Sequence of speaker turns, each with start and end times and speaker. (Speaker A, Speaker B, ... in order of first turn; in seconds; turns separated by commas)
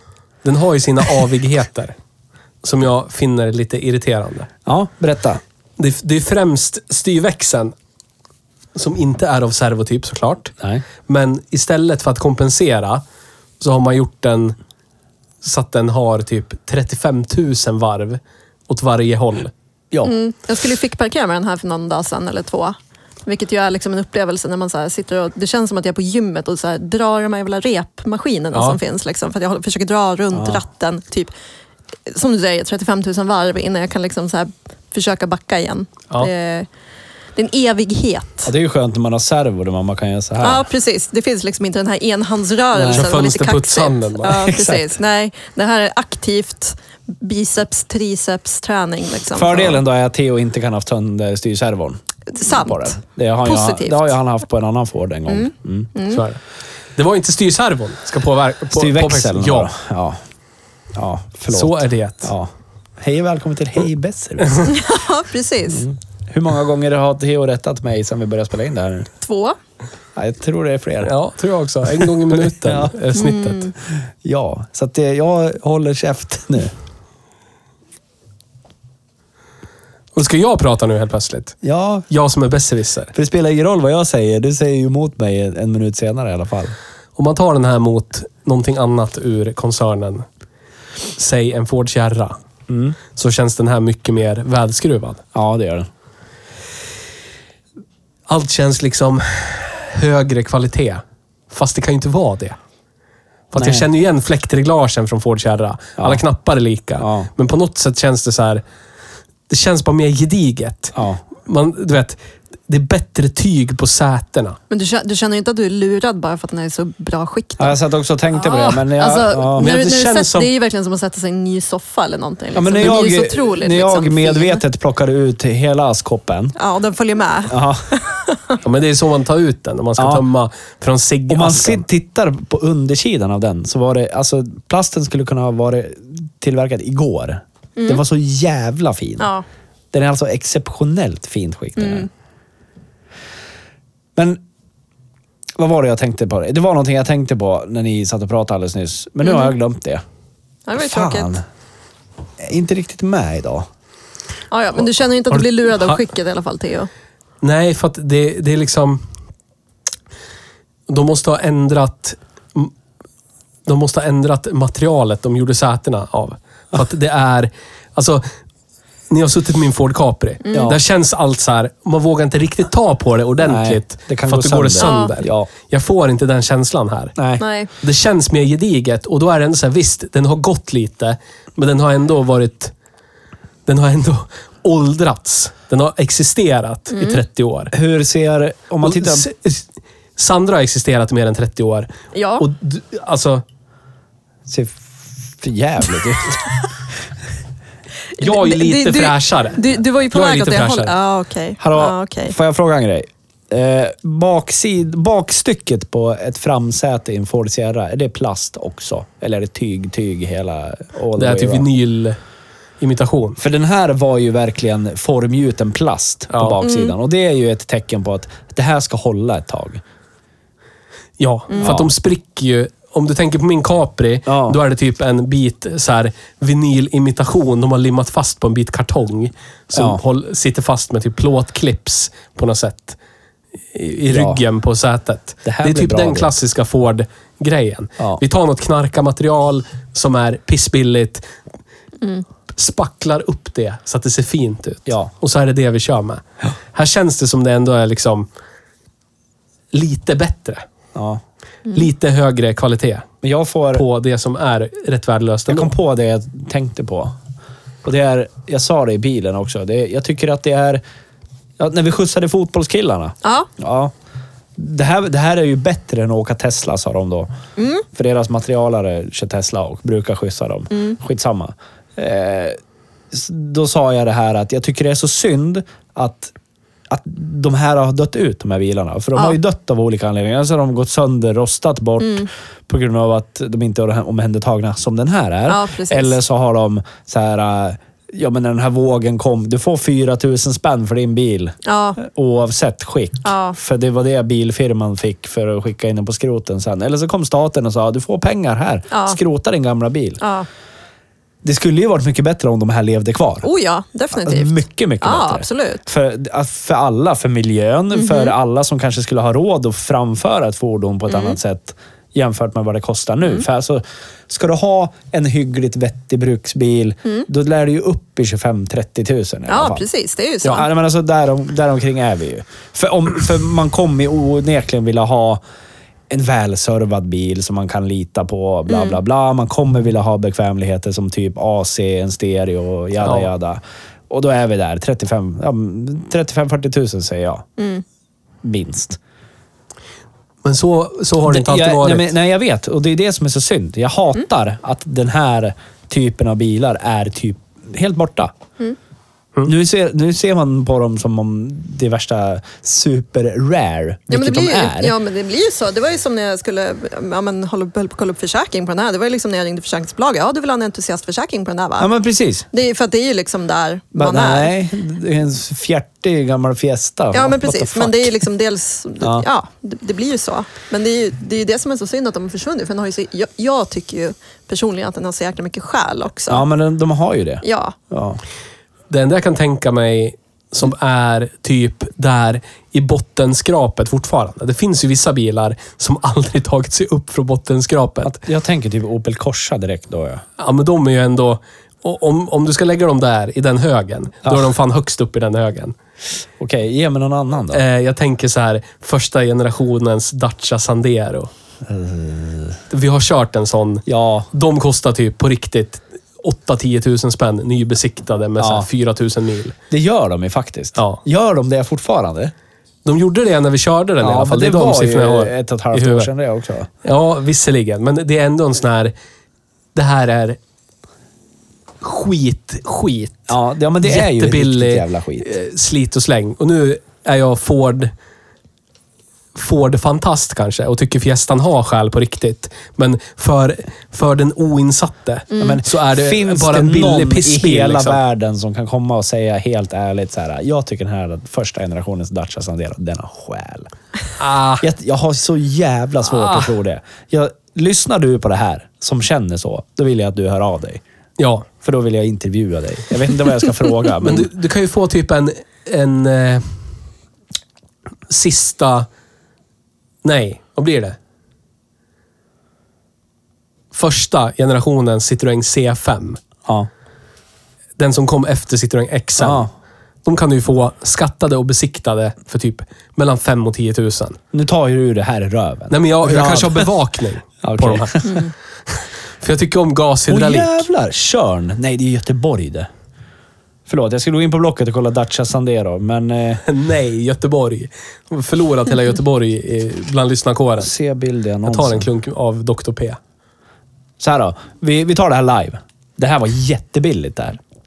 Speaker A: 0.4-1.9, Speaker A: 2.6-4.5, Speaker B: 4.7-5.4, Speaker A: 5.8-7.7, Speaker A: 8.7-10.5, Speaker A: 11.1-13.0, Speaker A: 13.6-14.6, Speaker A: 15.4-19.5, Speaker C: 20.0-31.3, Speaker B: 30.3-30.6, Speaker C: 32.1-36.7, Speaker C: 37.4-38.5, Speaker B: 38.4-40.7, Speaker C: 40.4-49.8, Speaker B: 42.8-43.0, Speaker A: 42.8-44.4, Speaker B: 44.3-44.9, Speaker B: 49.3-55.9, Speaker C: 52.3-54.1, Speaker C: 55.3-56.2, Speaker A: 56.1-56.4, Speaker A: 57.0-59.7, Speaker B: 58.7-60.2, Speaker B: 60.9-64.7, Speaker A: 61.5-62.3, Speaker C: 64.7-65.8, Speaker B: 65.7-69.1, Speaker C: 69.2-69.6, Speaker B: 70.2-71.1, Speaker A: 71.0-73.7, Speaker B: 72.6-72.9, Speaker C: 73.1-73.7, Speaker B: 73.8-76.7, Speaker A: 80.1-81.6, Speaker B: 81.6-82.1, Speaker A: 82.1-83.1, Speaker B: 83.1-86.7, Speaker A: 87.2-90.2, Speaker A: 91.2-92.4, Speaker B: 92.7-93.0, Speaker A: 93.1-95.2, Speaker B: 95.3-95.9, Speaker A: 98.3-102.6, Speaker A: 103.5-108.6, Speaker B: 103.5-103.8, Speaker B: 107.0-107.3, Speaker A: 109.5-110.9, Speaker B: 110.9-111.2, Speaker A: 111.4-114.6, Speaker C: 114.7-117.8, Speaker B: 117.6-119.7, Speaker C: 118.3-124.6, Speaker A: 119.6-120.5, Speaker B: 122.5-126.5, Speaker C: 126.5-128.6, Speaker B: 127.5-127.8, Speaker A: 128.6-131.8, Speaker B: 130.0-130.2, Speaker B: 131.3-139.3, Speaker C: 139.2-139.4, Speaker B: 139.9-142.1, Speaker C: 141.8-142.1, Speaker B: 144.2-144.4, Speaker B: 145.6-150.0, Speaker C: 149.2-149.5, Speaker C: 150.7-151.4, Speaker B: 150.8-151.4, Speaker B: 152.4-153.7, Speaker C: 154.5-156.9, Speaker A: 155.4-156.0, Speaker A: 157.4-159.0, Speaker A: 160.9-162.7, Speaker A: 163.7-168.3, Speaker A: 169.1-177.2, Speaker C: 170.4-170.7, Speaker B: 170.5-170.8, Speaker B: 173.4-175.5, Speaker C: 174.8-175.1, Speaker B: 177.2-177.4, Speaker C: 177.4-177.7, Speaker A: 177.8-182.7, Speaker A: 183.7-187.7, Speaker C: 186.9-187.2, Speaker B: 187.7-189.3, Speaker A: 188.8-189.6, Speaker A: 190.2-193.4, Speaker C: 192.1-192.4, Speaker B: 194.5-196.4, Speaker C: 198.2-202.3, Speaker A: 198.2-200.9, Speaker B: 201.6-211.7, Speaker A: 211.2-212.2, Speaker A: 212.8-213.4, Speaker B: 213.4-219.8, Speaker A: 216.3-216.6, Speaker C: 216.6-216.9, Speaker A: 221.2-233.0, Speaker B: 221.6-221.9, Speaker B: 224.3-224.6, Speaker B: 229.7-230.0, Speaker A: 233.7-241.2, Speaker B: 234.1-234.4, Speaker B: 235.4-236.3, Speaker A: 242.5-246.2, Speaker A: 246.7-248.3, Speaker A: 249.7-250.6, Speaker B: 250.9-251.2, Speaker A: 251.7-253.1, Speaker B: 253.2-253.8, Speaker A: 253.7-255.7, Speaker B: 255.5-257.1, Speaker B: 257.8-260.8, Speaker B: 261.6-263.9, Speaker C: 263.2-263.5, Speaker B: 264.6-267.3, Speaker C: 267.6-267.8, Speaker B: 267.9-272.6, Speaker B: 273.1-276.3, Speaker B: 276.9-300.2, Speaker C: 282.0-282.3, Speaker C: 285.5-286.2, Speaker C: 291.6-292.0, Speaker C: 293.2-293.6, Speaker C: 298.9-299.2, Speaker C: 300.2-300.5, Speaker B: 301.4-303.5, Speaker C: 303.4-305.8, Speaker B: 304.2-319.9, Speaker C: 307.9-308.3, Speaker C: 311.1-311.4, Speaker C: 319.5-320.7, Speaker B: 320.4-325.4, Speaker B: 326.1-337.4, Speaker C: 328.7-329.0, Speaker A: 333.0-333.3, Speaker C: 337.6-337.8, Speaker B: 338.4-339.0, Speaker A: 340.4-342.1, Speaker B: 341.3-348.3, Speaker B: 349.4-354.9, Speaker C: 354.1-361.9, Speaker B: 361.8-362.5, Speaker C: 362.5-364.5, Speaker B: 363.9-368.2, Speaker C: 367.1-376.4, Speaker B: 369.0-369.2, Speaker B: 376.3-378.2, Speaker C: 377.4-377.7, Speaker A: 378.9-388.2, Speaker B: 388.0-390.2, Speaker A: 390.4-395.7, Speaker B: 394.2-394.5, Speaker B: 396.4-397.6, Speaker A: 397.5-401.3, Speaker B: 401.6-402.6, Speaker A: 402.7-409.6, Speaker B: 403.9-404.3, Speaker B: 408.4-408.7, Speaker B: 409.7-412.3, Speaker A: 412.8-416.1, Speaker B: 414.0-416.7, Speaker A: 416.8-418.9, Speaker A: 419.7-420.4, Speaker A: 421.8-427.9, Speaker B: 423.3-425.3, Speaker A: 429.3-438.0, Speaker C: 435.3-435.6, Speaker B: 435.4-443.7, Speaker A: 444.2-444.6, Speaker B: 444.6-450.8, Speaker A: 446.1-446.5, Speaker A: 451.2-451.5, Speaker B: 451.6-454.3, Speaker A: 454.0-456.5, Speaker A: 458.1-458.9, Speaker A: 460.0-461.0, Speaker A: 463.7-466.2, Speaker A: 467.8-469.5, Speaker B: 469.2-469.5, Speaker A: 470.0-474.2, Speaker B: 474.3-476.7, Speaker A: 475.7-478.2, Speaker B: 477.4-478.2, Speaker A: 478.7-480.6, Speaker B: 480.1-482.7, Speaker B: 483.7-486.4, Speaker A: 486.4-490.7, Speaker B: 490.6-491.9, Speaker A: 491.4-493.0, Speaker B: 494.0-497.4